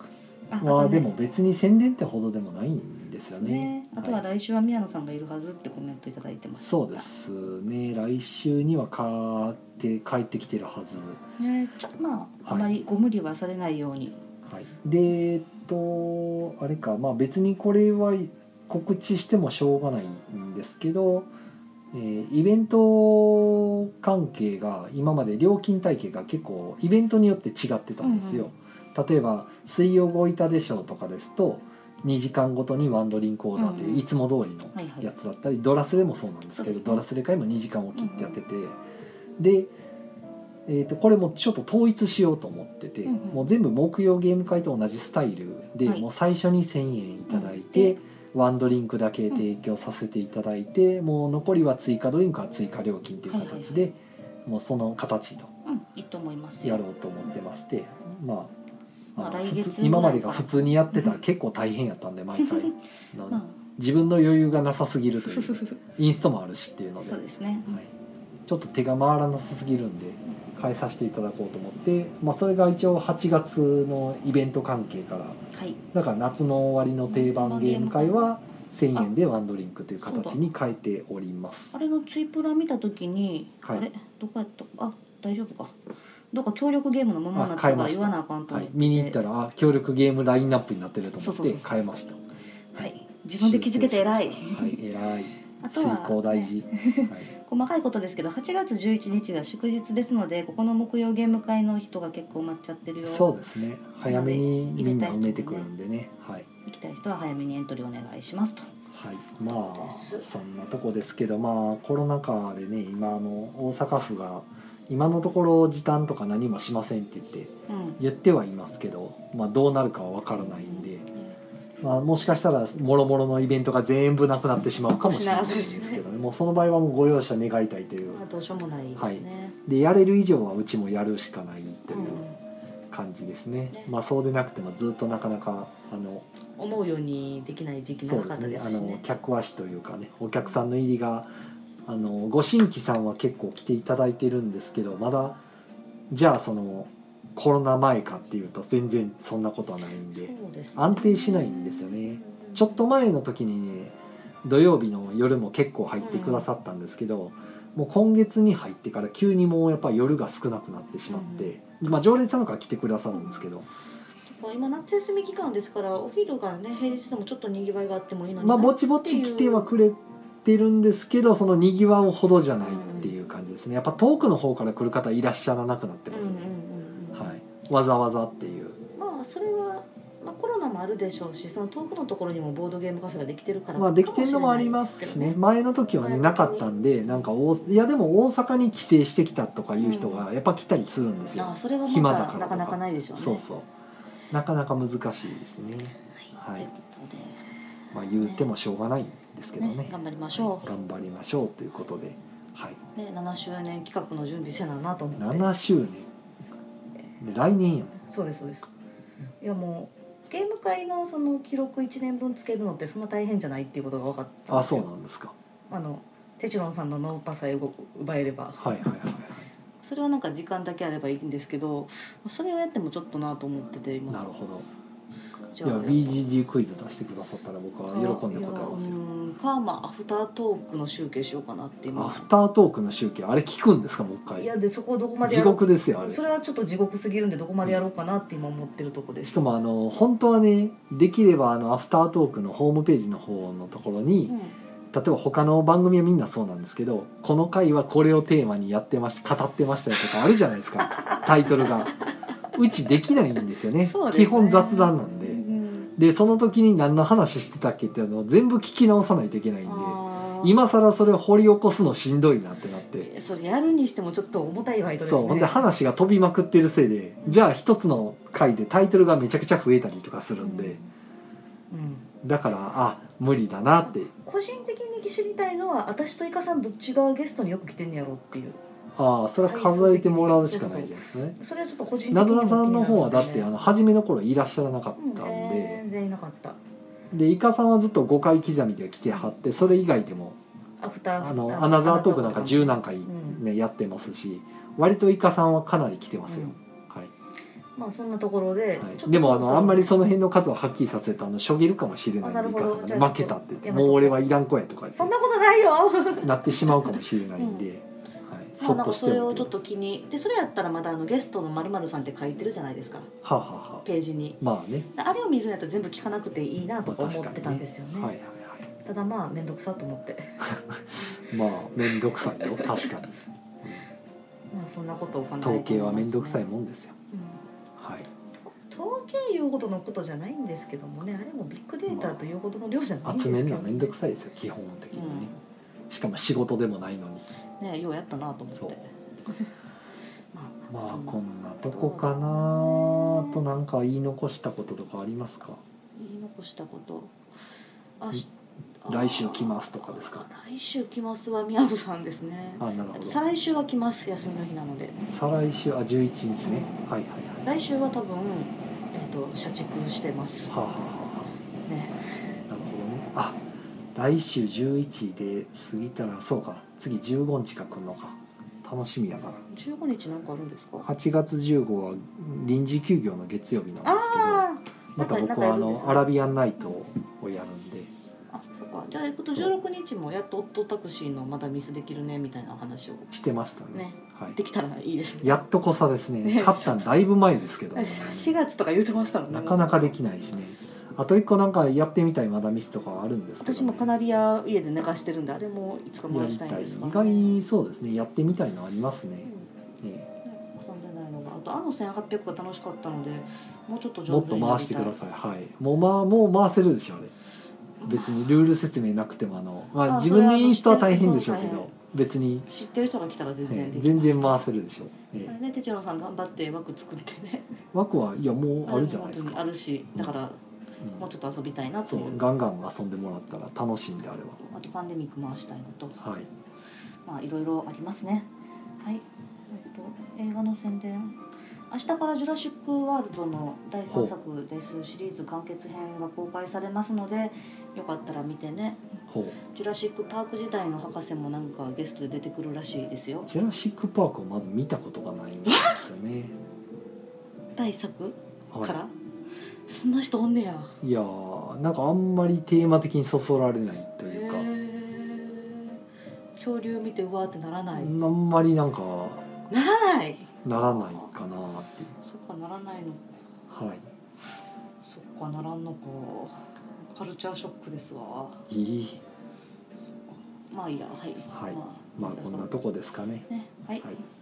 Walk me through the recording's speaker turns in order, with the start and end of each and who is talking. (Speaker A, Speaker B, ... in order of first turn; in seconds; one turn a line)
Speaker A: 0.5-1.1
Speaker B: 0.6-4.2
Speaker A: 3.3-7.0
Speaker B: 6.6-11.2
Speaker A: 11.4-14.2
Speaker B: 14.5-21.3
Speaker B: 21.9-38.8
Speaker A: 28.0-28.5
Speaker A: 33.5-34.0
Speaker A: 34.7-35.1
Speaker A: 36.6-37.0
Speaker A: 38.0-38.4
Speaker B: 39.4-39.7
Speaker B: 40.7-55.5
Speaker A: 43.0-43.5
Speaker A: 47.3-48.0
Speaker A: 53.3-53.9
Speaker A: 55.6-56.8
Speaker B: 56.6-58.5
Speaker A: 59.1-61.2
Speaker B: 59.1-67.9
Speaker A: 62.4-62.7
Speaker A: 63.3-63.6
Speaker A: 65.2-65.8
Speaker A: 67.0-67.8
Speaker B: 68.5-75.4
Speaker A: 75.5-75.8
Speaker B: 75.9-81.8
Speaker A: 77.1-78.4
Speaker A: 80.0-80.4
Speaker A: 81.7-85.8
Speaker A: 86.3-89.2
Speaker B: 87.3-92.2
Speaker A: 91.2-92.1
Speaker A: 92.7-94.8
Speaker B: 92.8-97.3
Speaker A: 95.6-103.3
Speaker B: 103.0-106.5
Speaker A: 104.1-105.7
Speaker A: 106.6-108.7
Speaker B: 108.9-121.1
Speaker A: 109.4-110.2
Speaker A: 117.7-118.0
Speaker A: 120.4-121.3
Speaker B: 121.8-128.2
Speaker A: 125.0-126.0
Speaker A: 128.1-129.6
Speaker B: 129.0-132.2
Speaker A: 131.9-132.4
Speaker B: 132.9-136.2
Speaker A: 136.6-139.0
Speaker B: 138.0-141.3
Speaker B: 141.9-145.4
Speaker B: 146.1-163.7
Speaker A: 150.1-152.8
Speaker A: 156.0-156.5
Speaker A: 161.1-161.5
Speaker A: 163.1-163.4
Speaker A: 164.3-169.7
Speaker B: 168.4-176.5
Speaker A: 172.6-173.1
Speaker A: 176.1-177.4
Speaker B: 177.1-178.8
Speaker A: 179.0-185.4
Speaker B: 183.8-193.7
Speaker A: 186.0-187.2
Speaker A: 189.8-190.3
Speaker A: 191.3-193.4
Speaker B: 194.3-196.7
Speaker A: 196.2-197.4
Speaker B: 197.9-202.8
Speaker A: 198.2-198.5
Speaker A: 199.6-200.8
Speaker A: 202.9-205.5
Speaker B: 205.2-206.1
Speaker B: 207.2-208.0
Speaker A: 208.0-208.7
Speaker A: 209.4-214.9
Speaker B: 214.5-215.3
Speaker A: 215.7-218.9
Speaker B: 218.6-219.5
Speaker A: 219.8-224.3
Speaker B: 224.1-224.7
Speaker A: 225.5-226.2
Speaker B: 225.6-229.0
Speaker A: 227.9-232.3
Speaker B: 231.9-234.5
Speaker A: 234.3-239.4
Speaker B: 235.2-236.2
Speaker B: 239.3-244.4
Speaker A: 244.3-244.6
Speaker B: 244.9-255.4
Speaker A: 250.8-252.0
Speaker A: 253.8-255.9
Speaker B: 255.9-263.1
Speaker A: 259.6-260.6
Speaker A: 263.0-265.7
Speaker B: 265.0-270.8
Speaker A: 270.4-270.9
Speaker A: 271.7-272.1
Speaker B: 272.2-274.1
Speaker A: 273.8-278.6
Speaker B: 278.9-281.4
Speaker A: 279.4-283.5
Speaker B: 282.1-285.8
Speaker A: 285.0-286.6
Speaker B: 287.1-290.4
Speaker A: 290.8-293.4
Speaker B: 291.2-297.1
Speaker A: 296.3-296.6
Speaker A: 297.8-300.0
Speaker B: 298.8-305.1
Speaker A: 302.2-304.4
Speaker A: 304.9-307.7
Speaker B: 306.2-309.5
Speaker A: 308.6-313.1
Speaker B: 313.2-313.8
Speaker A: 313.8-314.4
Speaker B: 314.4-314.9
Speaker A: 314.9-318.1
Speaker B: 316.9-318.6
Speaker A: 318.8-320.4
Speaker B: 320.4-323.8
Speaker A: 321.8-322.9
Speaker A: 324.5-326.5
Speaker B: 325.4-326.9
Speaker A: 327.1-327.4
Speaker B: 327.8-328.1
Speaker A: 328.6-333.9
Speaker B: 331.9-332.2
Speaker B: 333.0-335.3
Speaker A: 334.9-335.4
Speaker B: 335.9-337.2
Speaker A: 337.6-339.5
Speaker B: 338.5-338.8
Speaker A: 340.3-343.4
Speaker B: 340.7-345.6
Speaker A: 345.9-347.1
Speaker A: 348.0-348.3
Speaker A: 348.8-355.0
Speaker B: 348.9-350.2
Speaker B: 352.6-353.2
Speaker B: 355.1-357.5
Speaker A: 356.4-356.7
Speaker A: 357.4-360.5
Speaker B: 360.5-361.3
Speaker A: 361.6-361.9
Speaker B: 362.5-363.4
Speaker B: 363.9-369.4
Speaker A: 369.5-370.9
Speaker B: 370.8-377.9
Speaker A: 373.8-376.8
Speaker A: 378.3-383.1
Speaker B: 383.1-384.4
Speaker A: 383.7-385.4
Speaker B: 385.2-388.3
Speaker A: 386.2-386.9
Speaker A: 387.7-389.9
Speaker B: 389.3-393.9
Speaker A: 393.4-397.4
Speaker B: 396.1-399.3
Speaker A: 399.2-399.5
Speaker B: 399.8-400.1
Speaker A: 400.2-404.9
Speaker B: 404.1-407.1
Speaker A: 407.8-408.1
Speaker B: 407.9-412.5
Speaker A: 409.8-411.7
Speaker A: 412.5-414.4
Speaker B: 413.5-415.3
Speaker A: 415.2-417.5
Speaker B: 417.7-420.1
Speaker A: 418.6-420.4
Speaker A: 421.0-422.2
Speaker B: 421.9-424.4
Speaker A: 424.4-426.0
Speaker B: 426.0-426.3
Speaker A: 427.0-428.3
Speaker A: 428.8-438.8
Speaker B: 439.1-439.4
Speaker A: 439.4-443.3
Speaker B: 443.2-446.3
Speaker A: 445.5-445.8
Speaker A: 447.6-448.9
Speaker B: 448.5-448.8
Speaker A: 449.7-450.8
Speaker B: 450.8-454.5
Speaker A: 454.1-455.8
Speaker A: 456.4-457.9
Speaker B: 457.7-459.3
Speaker A: 459.5-461.1
Speaker B: 460.4-461.9
Speaker A: 462.0-463.1
Speaker B: 463.5-463.8
Speaker A: 464.8-468.4
Speaker B: 468.5-469.0
Speaker A: 470.1-472.6
Speaker B: 471.3-473.2
Speaker A: 473.3-474.0